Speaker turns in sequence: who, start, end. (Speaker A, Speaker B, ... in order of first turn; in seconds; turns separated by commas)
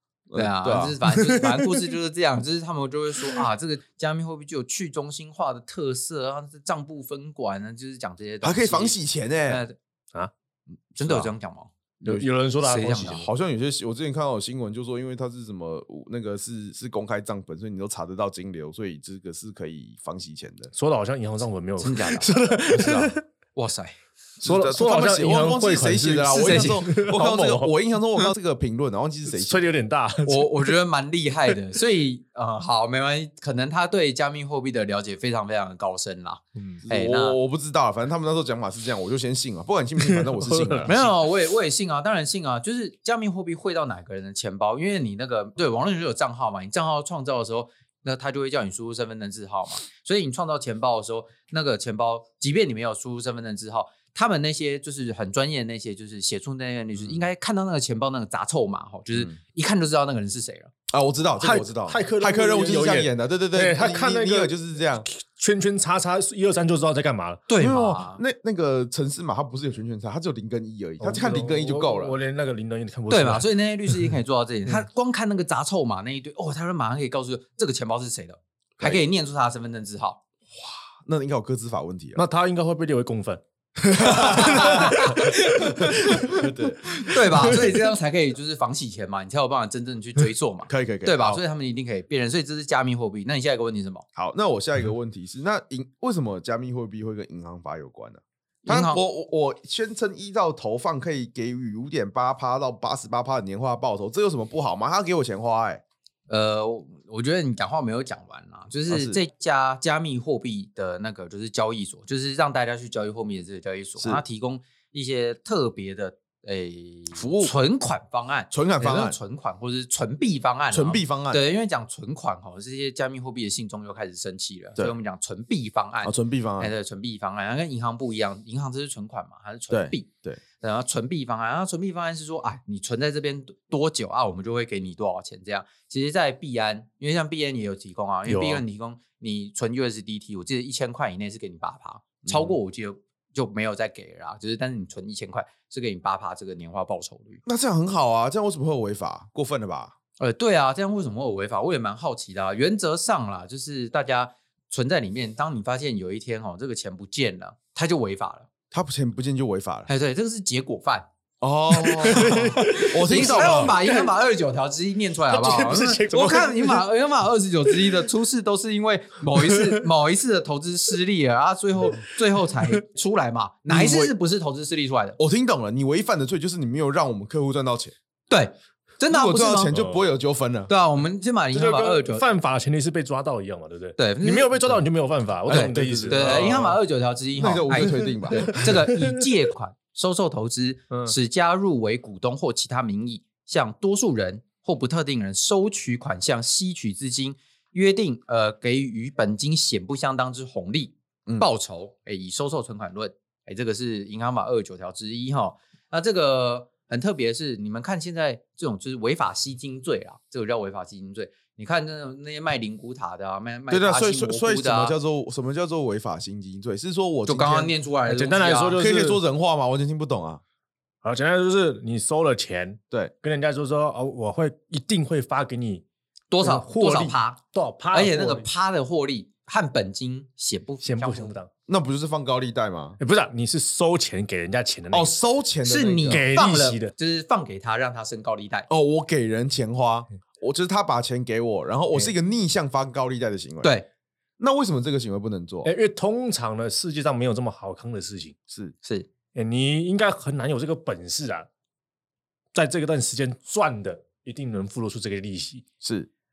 Speaker A: 0.3-1.0, Speaker B: 0.3-9.7, Speaker C: 1.1-1.9, Speaker A: 8.4-9.6, Speaker B: 11.0-11.7, Speaker A: 11.0-11.3, Speaker A: 12.0-12.3, Speaker C: 12.0-13.3, Speaker B: 12.6-13.2, Speaker A: 13.0-20.7, Speaker C: 20.7-23.2, Speaker B: 21.8-22.3, Speaker A: 22.8-23.1, Speaker B: 23.6-23.9, Speaker A: 24.4-29.7, Speaker C: 24.4-27.7, Speaker B: 26.4-26.8, Speaker C: 29.3-30.7, Speaker B: 30.2-37.4, Speaker C: 36.5-36.8, Speaker A: 36.8-40.9, Speaker C: 40.0-41.1, Speaker B: 40.9-60.7, Speaker A: 57.0-57.3, Speaker A: 60.9-65.1, Speaker C: 61.4-67.4, Speaker B: 67.5-68.2, Speaker A: 67.6-72.1, Speaker C: 71.0-74.1, Speaker B: 73.1-80.2, Speaker A: 78.8-79.0, Speaker A: 80.5-82.2, Speaker C: 82.2-83.4, Speaker A: 83.8-87.7, Speaker B: 84.0-85.8, Speaker C: 84.0-87.7, Speaker B: 87.0-94.0, Speaker A: 90.7-91.4, Speaker A: 94.2-105.8, Speaker B: 98.6-99.0, Speaker B: 106.3-130.1, Speaker A: 108.9-109.2, Speaker A: 114.0-114.2, Speaker A: 117.1-117.5, Speaker A: 118.5-119.2, Speaker A: 120.7-121.4, Speaker A: 126.0-126.7, Speaker A: 129.7-130.4, Speaker B: 130.6-147.4, Speaker C: 138.2-138.6, Speaker A: 142.2-142.6, Speaker A: 147.4-149.9, Speaker B: 150.2-158.5, Speaker A: 158.7-159.9, Speaker B: 159.9-161.1, Speaker A: 161.4-163.8, Speaker C: 161.8-164.1, Speaker B: 162.0-175.2, Speaker C: 165.3-166.8, Speaker C: 167.7-168.0, Speaker C: 169.3-169.8, Speaker A: 173.7-174.1, Speaker A: 175.2-177.9, Speaker B: 178.3-179.9, Speaker A: 179.1-180.7, Speaker B: 180.7-182.2, Speaker C: 181.5-186.8, Speaker B: 184.0-184.8, Speaker A: 185.5-186.8, Speaker B: 185.5-214.9, Speaker A: 187.3-188.7, Speaker C: 187.7-189.2, Speaker A: 213.7-217.7, Speaker B: 217.2-218.8, Speaker C: 218.1-219.2, Speaker A: 218.8-220.4, Speaker C: 221.0-225.8, Speaker B: 226.3-227.4, Speaker C: 226.4-228.5, Speaker B: 227.9-231.3, Speaker C: 230.8-231.5, Speaker A: 231.7-233.0, Speaker C: 233.0-235.1, Speaker A: 234.9-236.2, Speaker B: 235.6-238.7, Speaker C: 236.1-236.9, Speaker A: 238.7-243.7, Speaker A: 244.4-245.7, Speaker C: 245.6-248.3, Speaker A: 248.5-248.7, Speaker C: 249.3-251.5, Speaker C: 252.5-255.6, Speaker A: 255.8-256.1